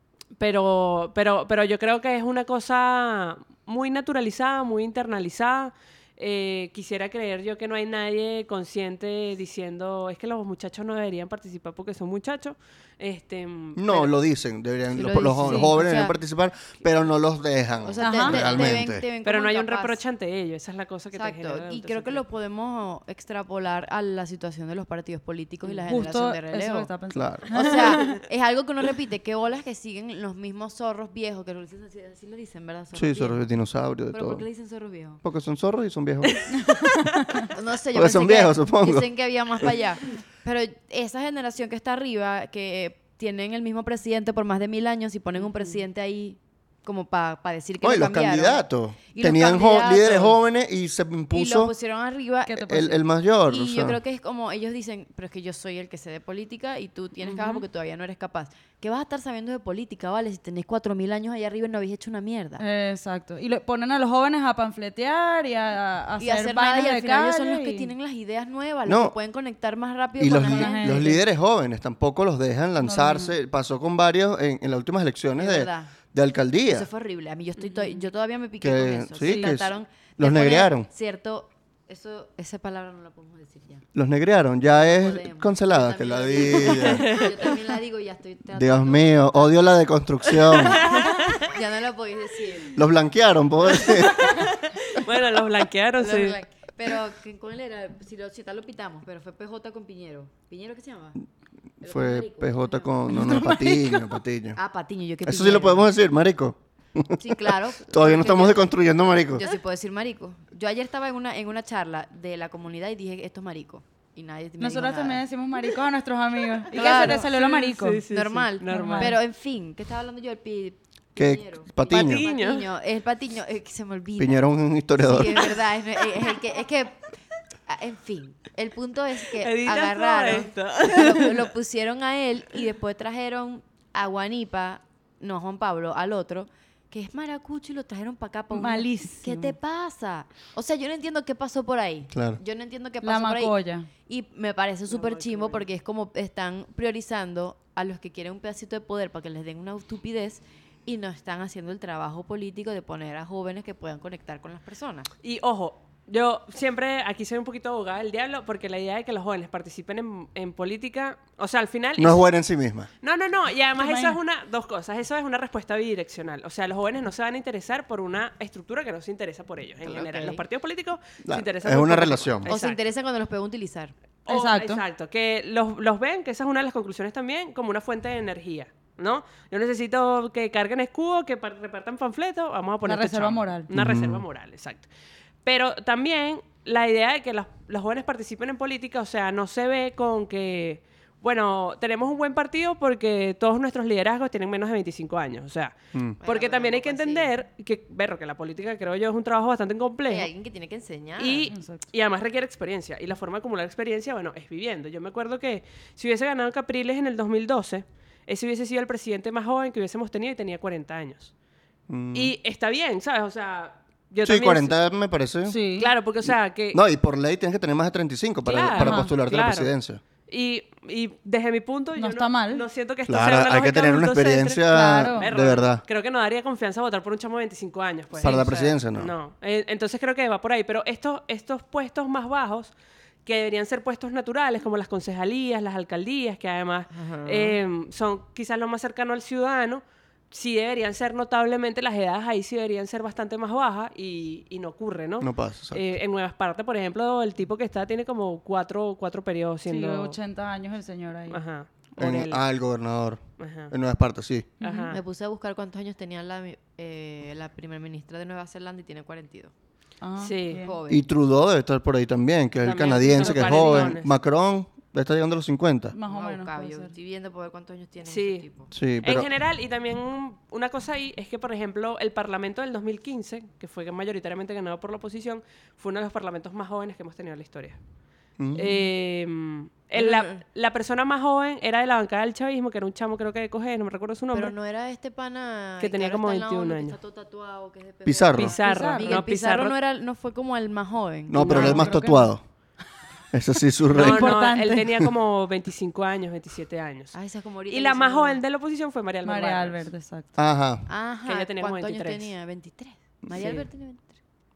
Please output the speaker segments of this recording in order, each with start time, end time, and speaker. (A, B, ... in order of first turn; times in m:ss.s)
0:00.4-0:14.1 A
0:13.8-0:19.0 B
0:14.9-0:16.2 C
0:15.4-0:15.7 D
0:17.8-0:20.0 C
0:18.0-0:18.5 D
0:19.2-0:22.2 A
0:21.1-0:26.9 C
0:25.9-0:28.2 D
0:27.1-0:27.5 B
0:27.5-0:33.4 C
0:33.0-0:34.4 B
0:34.1-0:35.2 C
0:35.2-0:36.4 B
0:36.3-0:37.5 A
0:36.5-0:37.5 D
0:37.5-0:50.4 C
0:37.9-0:39.1 B
0:45.4-0:45.8 A
0:47.8-0:51.7 B
0:51.3-0:53.0 C
0:52.4-0:53.0 D
0:52.6-0:54.0 B
0:53.5-1:02.6 C
0:57.2-0:57.6 D
1:02.6-1:07.9 D
1:06.2-1:11.2 C
1:08.9-1:09.1 B
1:10.2-1:16.9 B
1:10.4-1:11.2 D
1:13.0-1:13.3 D
1:15.4-1:15.9 C
1:16.7-1:23.8 C
1:17.6-1:18.0 A
1:18.6-1:20.9 B
1:19.2-1:19.5 D
1:23.9-1:27.2 B
1:24.7-1:29.6 C
1:26.6-1:27.6 A
1:28.6-1:31.1 B
1:30.2-1:31.5 A
1:30.6-1:32.8 C
1:32.8-1:34.4 B
1:33.8-1:36.4 A
1:36.0-1:41.2 C
1:41.8-1:44.6 B
1:41.8-1:43.7 C
1:43.3-1:43.9 A
1:44.6-1:45.9 C
1:45.2-1:49.6 B
1:47.2-1:55.2 C
1:54.6-1:58.0 D
1:56.7-1:57.3 C
1:56.7-1:59.2 A
1:58.0-2:04.4 C
1:58.7-1:59.1 D
2:01.2-2:02.3 B
2:01.9-2:02.7 A
2:04.2-2:05.6 B
2:05.0-2:07.1 C
2:07.7-2:35.1 C
2:09.3-2:11.5 A
2:18.5-2:19.6 D
2:22.1-2:22.4 B
2:23.0-2:23.9 D
2:24.9-2:25.6 A
2:35.2-2:42.2 A
2:42.0-2:42.9 B
2:43.0-2:52.8 A
2:43.8-2:44.2 D
2:49.8-2:50.4 C
2:51.2-2:52.5 B
2:52.5-2:53.9 C
2:54.3-3:04.9 A
2:54.3-2:54.8 D
3:02.8-3:03.7 D
3:03.7-3:04.2 B
3:05.4-3:20.3 A
3:16.2-3:17.3 C
3:20.1-3:21.5 C
3:21.2-3:31.3 A
3:21.5-3:21.8 D
3:31.9-3:32.3 B
3:32.1-3:34.8 A
3:34.2-3:35.6 B
3:35.5-3:35.9 D
3:35.8-3:36.8 A
3:36.2-3:40.0 B
3:38.4-3:39.7 A
3:38.8-3:39.1 D
3:40.3-3:52.7 A
3:42.0-3:42.6 D
3:43.1-3:45.8 B
3:44.7-3:45.3 D
3:48.2-3:48.6 C
3:48.2-3:49.1 B
3:53.2-4:10.2 A
3:57.0-3:57.6 C
4:05.2-4:06.0 B
4:09.7-4:11.4 D
4:11.3-4:12.4 A
4:12.0-4:14.5 B
4:13.4-4:13.7 A
4:14.6-4:14.9 D
4:14.6-4:15.0 A
4:14.9-4:19.5 C
4:20.0-4:20.8 D
4:20.2-4:20.6 A
4:20.6-4:21.0 C
4:20.9-4:26.0 B
4:22.6-4:24.1 A
4:23.2-4:24.0 D
4:25.9-4:26.9 D
4:26.1-4:28.7 C
4:28.0-4:28.5 A
4:28.7-4:29.3 B
4:29.0-4:37.8 A
4:38.4-4:38.8 B
4:38.5-4:44.5 A
4:40.0-4:40.4 C
4:44.3-4:51.9 C
4:45.8-4:47.0 A
4:48.0-4:48.5 B
4:48.4-4:49.8 A
4:48.6-4:49.2 D
4:51.3-4:52.4 B
4:51.4-4:51.8 A
4:51.5-4:52.4 D
4:53.3-4:54.4 B
4:53.9-4:54.9 D
4:53.9-4:57.2 A
4:57.1-4:58.4 C
4:57.7-4:59.9 A
4:59.2-5:00.4 D
5:00.4-5:00.9 B
5:00.9-5:04.1 C
5:01.2-5:02.3 A
5:03.2-5:03.6 B
5:03.4-5:03.6 A